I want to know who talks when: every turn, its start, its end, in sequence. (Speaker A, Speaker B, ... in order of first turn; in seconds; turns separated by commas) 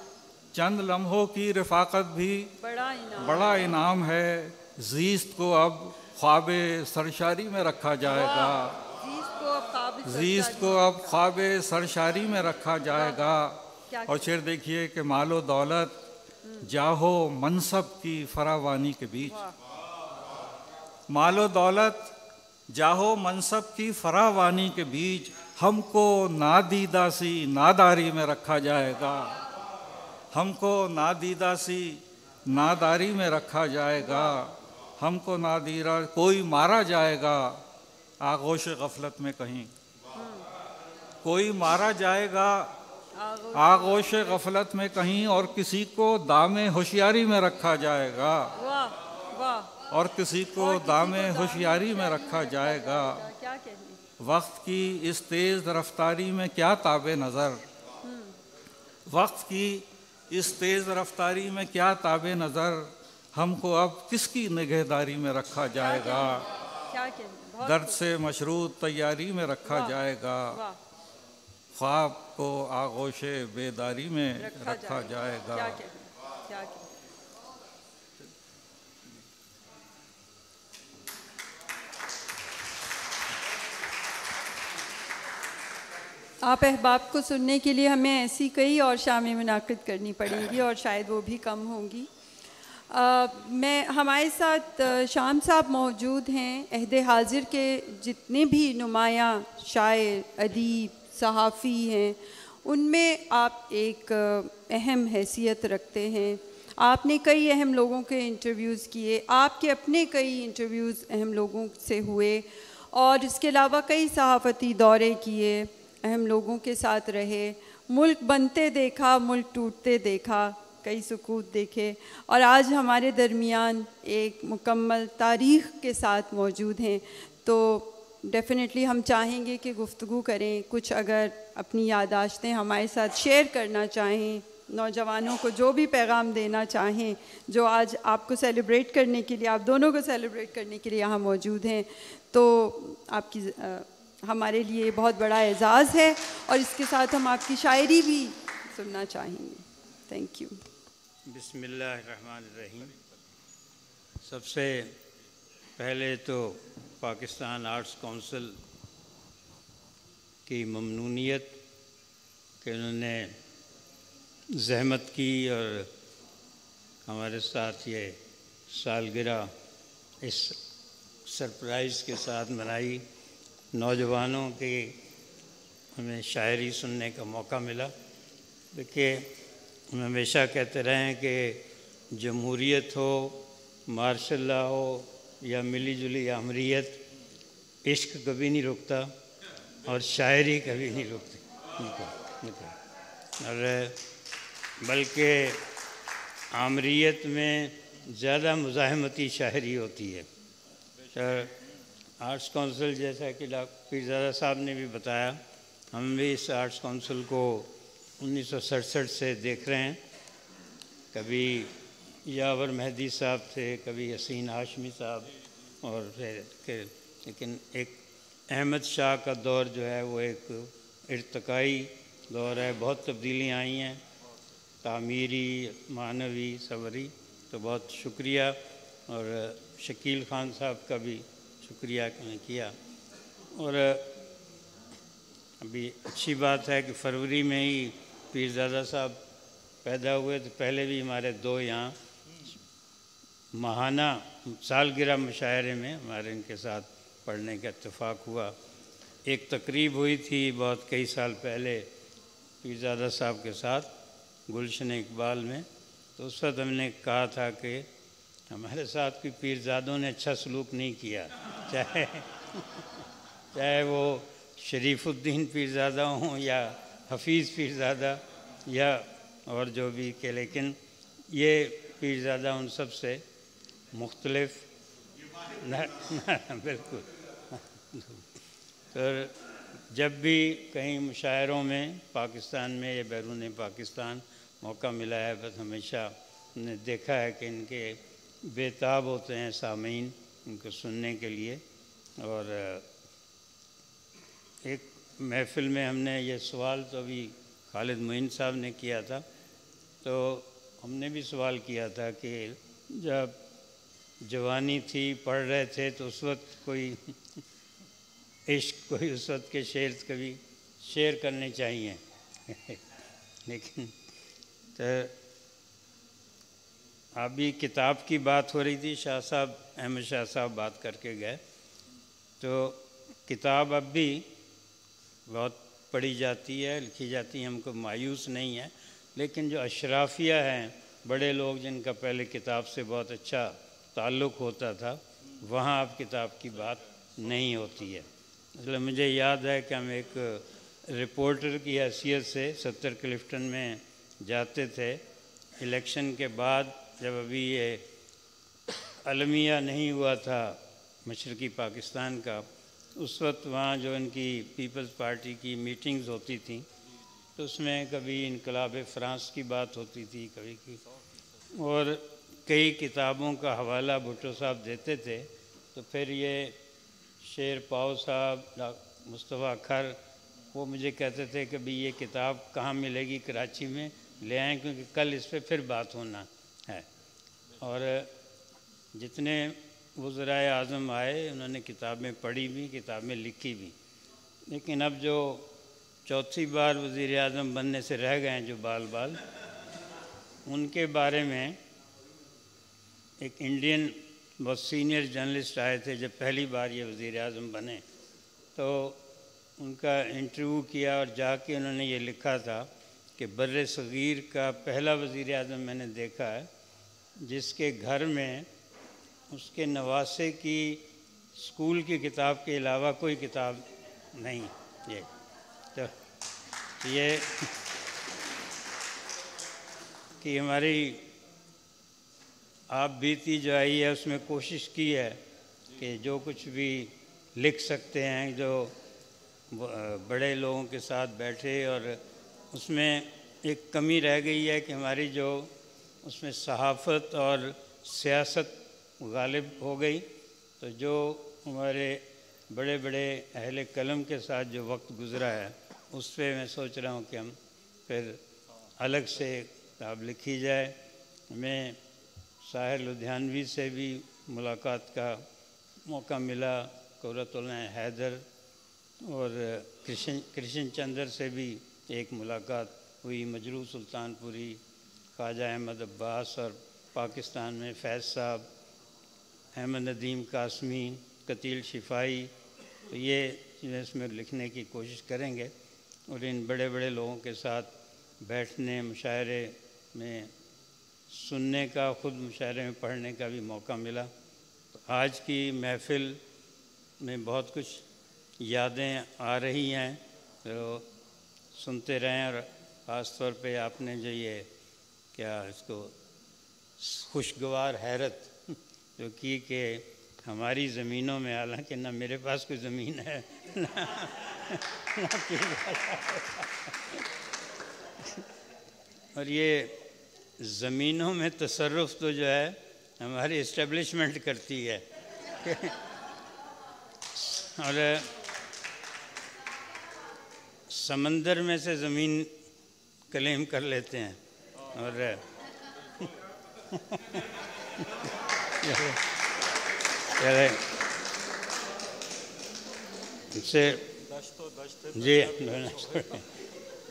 Speaker A: 0.5-2.5, Speaker B: 2.6-3.8, Speaker A: 3.2-8.8, Speaker B: 8.1-11.2, Speaker A: 10.1-16.0, Speaker B: 12.9-13.2, Speaker B: 13.9-14.3, Speaker A: 16.6-19.4, Speaker B: 19.3-19.5, Speaker A: 21.1-22.1, Speaker A: 22.7-29.4, Speaker A: 30.3-37.6, Speaker B: 34.0-34.4, Speaker A: 38.2-39.7, Speaker B: 40.1-40.5, Speaker A: 41.2-42.8, Speaker B: 43.2-44.4, Speaker A: 43.5-48.5, Speaker B: 48.5-49.7, Speaker A: 49.9-53.2, Speaker B: 50.6-54.0, Speaker A: 54.2-57.6, Speaker B: 58.0-58.3, Speaker A: 59.0-66.5, Speaker B: 65.8-68.0, Speaker A: 67.6-70.6, Speaker B: 69.7-70.0, Speaker B: 70.5-70.8, Speaker A: 71.7-75.8, Speaker B: 74.4-76.8, Speaker B: 86.4-92.1, Speaker B: 92.9-150.6, Speaker C: 151.3-152.9, Speaker C: 154.2-154.9, Speaker C: 155.8-158.6, Speaker C: 160.5-161.6, Speaker C: 162.6-163.3, Speaker C: 164.5-165.9, Speaker C: 167.1-168.2, Speaker C: 168.7-169.5, Speaker C: 170.2-170.6, Speaker C: 171.2-173.0, Speaker C: 173.7-174.9, Speaker C: 175.9-177.9, Speaker C: 178.7-179.3, Speaker C: 179.9-187.0, Speaker C: 187.8-189.1, Speaker C: 189.8-192.7, Speaker C: 193.4-194.0, Speaker C: 194.8-195.6, Speaker C: 196.5-200.2, Speaker C: 201.1-201.5, Speaker C: 202.2-205.4, Speaker C: 205.9-210.0, Speaker C: 211.1-211.7, Speaker C: 212.2-215.3, Speaker C: 215.8-218.0, Speaker C: 218.5-224.0, Speaker C: 224.8-228.6, Speaker C: 229.1-232.7, Speaker C: 233.5-234.1, Speaker C: 235.6-239.2, Speaker C: 239.8-241.9, Speaker C: 243.5-248.5, Speaker C: 249.3-251.9, Speaker C: 252.6-253.9, Speaker C: 254.5-255.7, Speaker C: 256.2-257.9, Speaker C: 258.5-262.3, Speaker C: 263.5-270.8, Speaker C: 271.3-273.2, Speaker C: 273.9-274.7, Speaker C: 275.6-278.2, Speaker C: 278.9-279.3, Speaker C: 279.9-291.6, Speaker C: 292.2-292.8, Speaker C: 294.6-299.2, Speaker C: 300.0-303.3, Speaker C: 304.2-307.1, Speaker C: 308.5-312.8, Speaker C: 313.5-313.9, Speaker C: 314.8-315.1, Speaker C: 317.1-321.4, Speaker C: 322.4-324.2, Speaker C: 325.3-338.1, Speaker C: 338.6-345.0, Speaker C: 345.6-347.8, Speaker C: 349.0-356.7, Speaker C: 357.4-360.8, Speaker C: 361.5-366.6, Speaker C: 367.2-370.0, Speaker C: 370.5-376.9, Speaker C: 377.6-378.1, Speaker C: 378.9-383.7, Speaker C: 384.5-385.5, Speaker C: 386.1-389.2, Speaker C: 390.4-391.6, Speaker C: 393.2-397.8, Speaker C: 398.6-399.0, Speaker C: 399.6-406.5, Speaker C: 407.2-408.5, Speaker C: 409.3-410.8, Speaker C: 411.4-415.1, Speaker C: 416.8-417.5, Speaker C: 420.2-421.1, Speaker C: 422.7-425.2, Speaker C: 425.8-428.7, Speaker C: 429.5-432.0, Speaker C: 432.5-435.5, Speaker C: 436.0-440.0, Speaker C: 440.6-447.3, Speaker C: 447.9-448.2, Speaker C: 448.8-450.7, Speaker C: 451.3-451.8, Speaker C: 452.4-455.2, Speaker C: 455.9-458.2, Speaker C: 459.0-464.6, Speaker C: 465.2-468.5, Speaker C: 469.5-472.3, Speaker C: 472.9-475.5, Speaker C: 476.1-480.3, Speaker C: 481.1-484.1, Speaker C: 484.8-486.2, Speaker C: 487.0-487.8, Speaker C: 488.4-490.9, Speaker C: 491.5-494.5, Speaker C: 495.1-495.9, Speaker C: 496.8-498.3, Speaker C: 499.0-506.5, Speaker C: 509.1-509.8, Speaker C: 510.4-514.8, Speaker C: 515.4-515.8, Speaker C: 517.2-518.1, Speaker C: 520.7-522.3, Speaker C: 523.1-524.2, Speaker C: 524.7-525.2, Speaker C: 526.7-527.2, Speaker C: 528.6-529.0, Speaker C: 530.2-530.7, Speaker C: 533.3-533.9, Speaker A: 534.1-536.1, Speaker C: 534.9-536.2